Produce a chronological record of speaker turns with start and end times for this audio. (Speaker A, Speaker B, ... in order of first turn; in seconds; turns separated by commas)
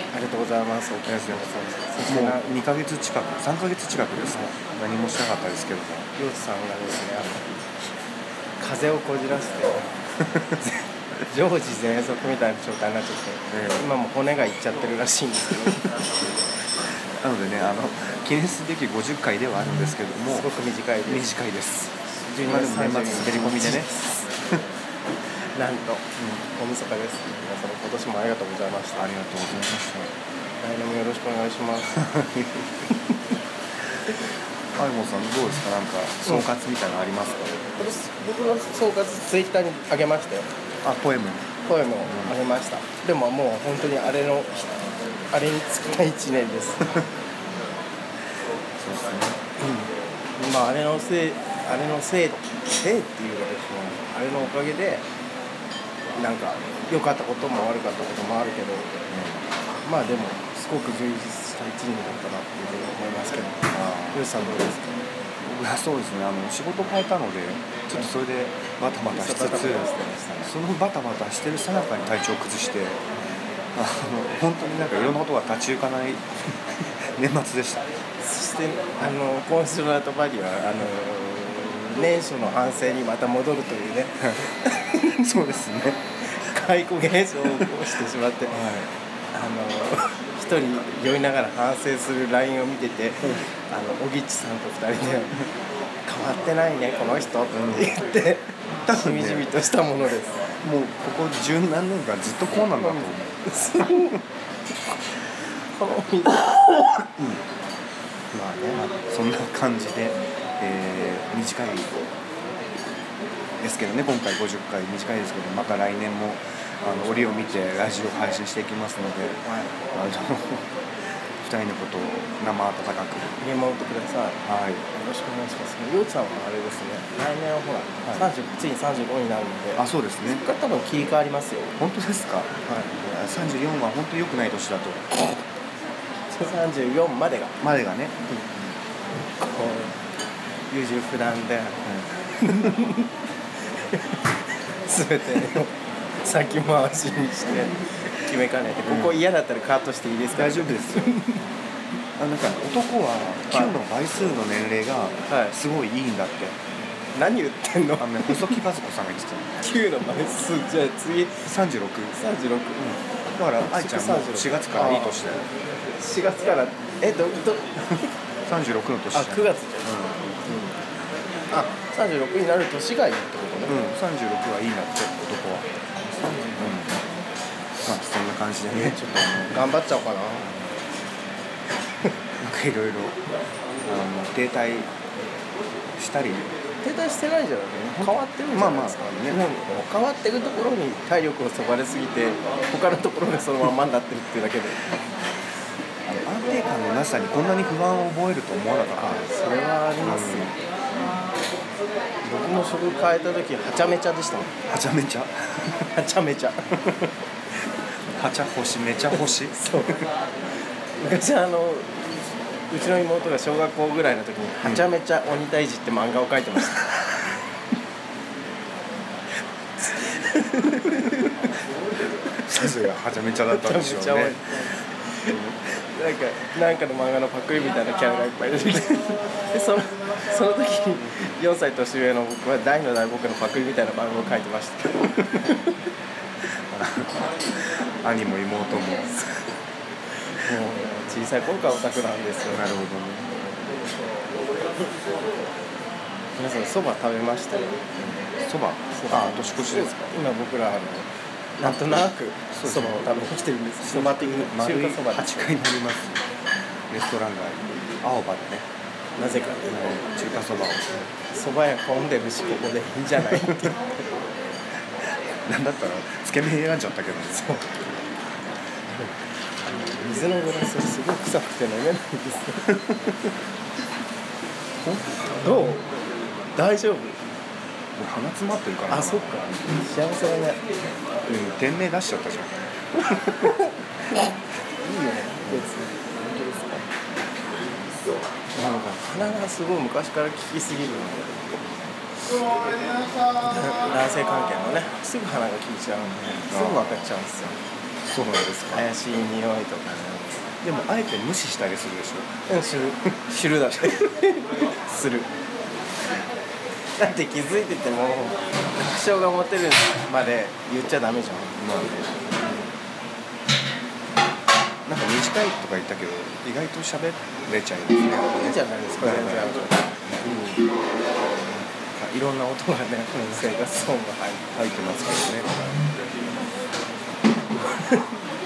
Speaker A: 0.1-2.5, Speaker B: 1.1-1.4, Speaker B: 2.0-6.1, Speaker A: 6.2-7.7, Speaker A: 8.6-9.9, Speaker B: 10.2-10.6, Speaker A: 11.3-15.9, Speaker B: 13.5-13.9, Speaker B: 17.2-20.5, Speaker A: 20.3-21.3, Speaker B: 21.1-21.9, Speaker A: 22.1-24.3, Speaker B: 22.4-23.9, Speaker A: 25.5-29.1, Speaker B: 28.9-30.1, Speaker A: 30.6-32.1, Speaker B: 31.9-32.8, Speaker B: 34.8-37.5, Speaker A: 37.8-40.5, Speaker B: 40.8-41.5, Speaker A: 41.6-44.6, Speaker B: 42.1-42.3, Speaker A: 45.3-47.0, Speaker B: 48.8-49.4, Speaker A: 49.6-55.0, Speaker A: 56.1-58.9, Speaker B: 59.1-59.5, Speaker A: 59.8-65.0, Speaker B: 63.7-64.6, Speaker B: 65.4-69.9, Speaker A: 69.1-70.5, Speaker B: 70.4-73.0, Speaker B: 73.7-76.2, Speaker B: 77.1-77.8, Speaker A: 78.2-85.2, Speaker B: 85.2-86.0, Speaker A: 86.3-88.6, Speaker B: 88.5-88.9, Speaker A: 89.3-95.4, Speaker A: 96.0-100.4, Speaker B: 97.5-97.9, Speaker B: 98.9-99.5, Speaker B: 100.6-103.4, Speaker A: 102.5-104.2, Speaker A: 105.7-107.0, Speaker B: 107.2-107.4, Speaker B: 108.3-112.0, Speaker B: 113.6-120.7, Speaker A: 116.9-117.8, Speaker A: 119.4-119.8, Speaker B: 121.4-123.4, Speaker A: 123.4-131.7, Speaker B: 124.4-124.8, Speaker B: 129.8-130.4, Speaker B: 131.8-135.0, Speaker A: 132.7-132.9, Speaker A: 136.3-137.6, Speaker B: 137.6-138.3, Speaker A: 139.5-140.0, Speaker A: 140.7-143.1, Speaker A: 143.7-151.4, Speaker B: 148.8-149.2, Speaker B: 150.3-151.2, Speaker B: 152.2-156.6, Speaker A: 153.5-153.8, Speaker A: 155.3-155.5, Speaker A: 157.1-158.6, Speaker B: 158.0-159.6, Speaker A: 159.6-161.5, Speaker B: 161.4-162.2, Speaker A: 162.1-163.0, Speaker B: 163.3-165.4, Speaker A: 163.7-165.2, Speaker A: 166.0-168.1, Speaker B: 168.5-170.3, Speaker A: 169.1-170.8, Speaker A: 171.5-173.8, Speaker B: 173.7-175.7, Speaker A: 176.2-176.6, Speaker B: 176.6-177.0, Speaker B: 177.8-179.6, Speaker A: 178.7-180.5, Speaker B: 182.4-183.2, Speaker B: 183.8-184.9, Speaker B: 186.0-186.5, Speaker A: 186.8-194.8, Speaker B: 188.5-189.4, Speaker B: 196.1-199.3, Speaker A: 199.0-200.6, Speaker B: 200.0-200.5, Speaker A: 202.2-204.6, Speaker B: 204.7-205.9, Speaker A: 205.9-207.1, Speaker B: 208.1-209.6, Speaker A: 209.1-210.1, Speaker A: 211.0-217.1, Speaker A: 219.8-221.5, Speaker B: 222.4-224.4, Speaker A: 223.5-235.8, Speaker B: 236.7-239.2, Speaker A: 240.2-242.7, Speaker B: 242.5-243.3, Speaker A: 246.4-248.2, Speaker B: 248.4-250.1, Speaker A: 248.9-255.6, Speaker B: 251.6-253.3, Speaker B: 253.8-256.2, Speaker B: 256.9-258.6, Speaker A: 259.1-259.9, Speaker B: 259.7-261.1, Speaker A: 261.3-263.8, Speaker B: 263.1-263.7, Speaker B: 265.4-267.6, Speaker A: 267.4-267.7, Speaker A: 268.9-272.7, Speaker B: 272.7-273.0, Speaker A: 275.3-275.9, Speaker A: 276.6-277.2, Speaker B: 277.9-279.6, Speaker A: 278.9-280.6, Speaker B: 281.2-282.6, Speaker A: 283.1-283.7, Speaker A: 284.8-286.8, Speaker A: 288.5-291.9, Speaker A: 293.3-297.6, Speaker B: 296.4-297.1, Speaker B: 298.0-298.9, Speaker A: 298.7-300.5, Speaker B: 300.6-302.3, Speaker A: 302.5-305.3, Speaker A: 307.0-311.6, Speaker B: 311.6-312.2, Speaker B: 314.9-319.5, Speaker A: 318.3-320.6, Speaker A: 321.9-324.5, Speaker B: 324.5-325.5, Speaker A: 327.6-328.1